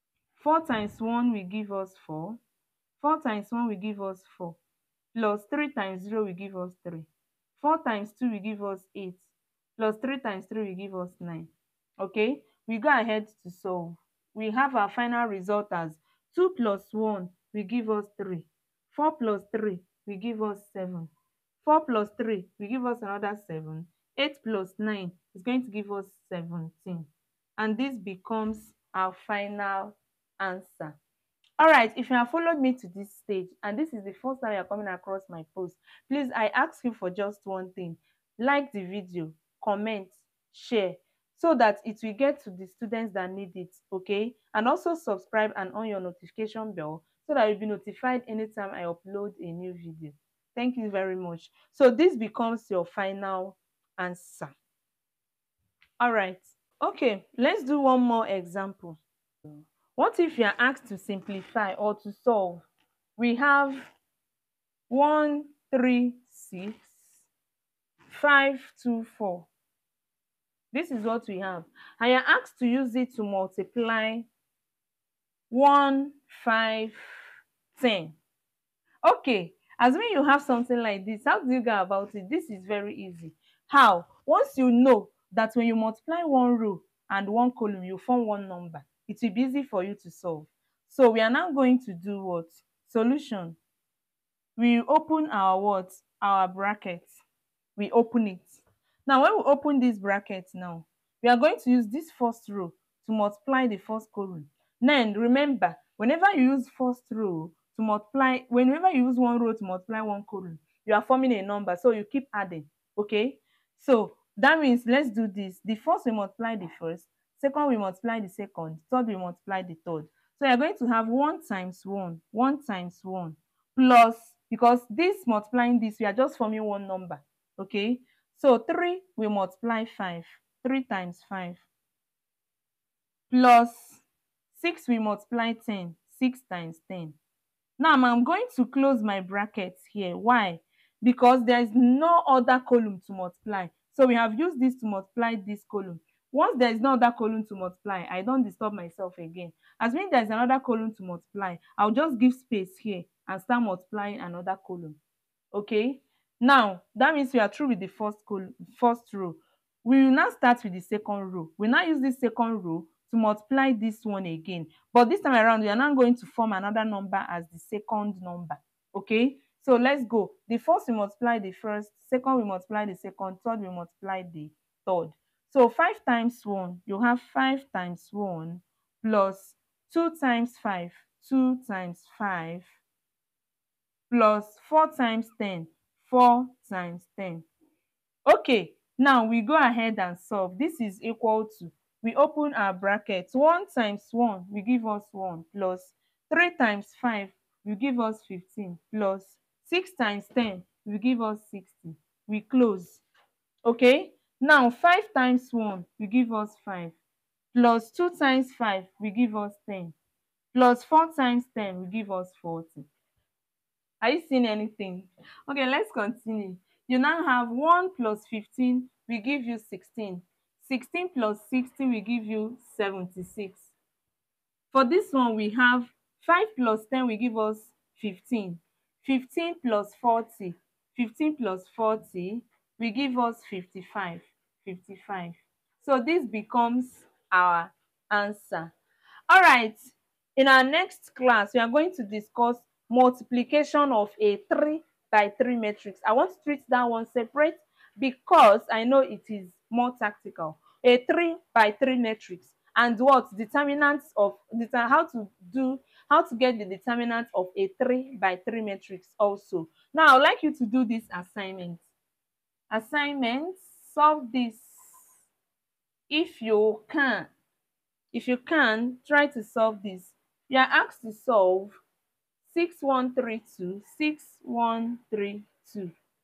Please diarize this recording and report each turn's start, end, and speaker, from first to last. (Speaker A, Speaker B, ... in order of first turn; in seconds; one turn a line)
Speaker A: 0.3-2.4
Speaker A: 3.0-4.6
Speaker A: 5.1-21.1
Speaker A: 21.6-31.0
Speaker A: 31.6-54.5
Speaker A: 56.0-63.9
Speaker A: 64.9-67.3
Speaker A: 68.1-69.5
Speaker A: 70.7-74.3
Speaker A: 75.5-77.0
Speaker A: 77.7-78.2
Speaker A: 79.0-93.6
Speaker A: 94.6-97.2
Speaker A: 97.8-131.6
Speaker A: 133.3-137.2
Speaker A: 137.8-155.0
Speaker A: 155.5-182.7
Speaker A: 184.1-187.5
Speaker A: 188.2-203.0
Speaker A: 203.6-207.0
Speaker A: 207.5-209.9
Speaker A: 210.5-212.9
Speaker A: 214.0-223.7
Speaker A: 224.7-238.7
Speaker A: 239.3-261.9
Speaker A: 262.7-265.1
Speaker A: 266.1-267.3
Speaker A: 268.1-271.8
Speaker A: 272.4-275.9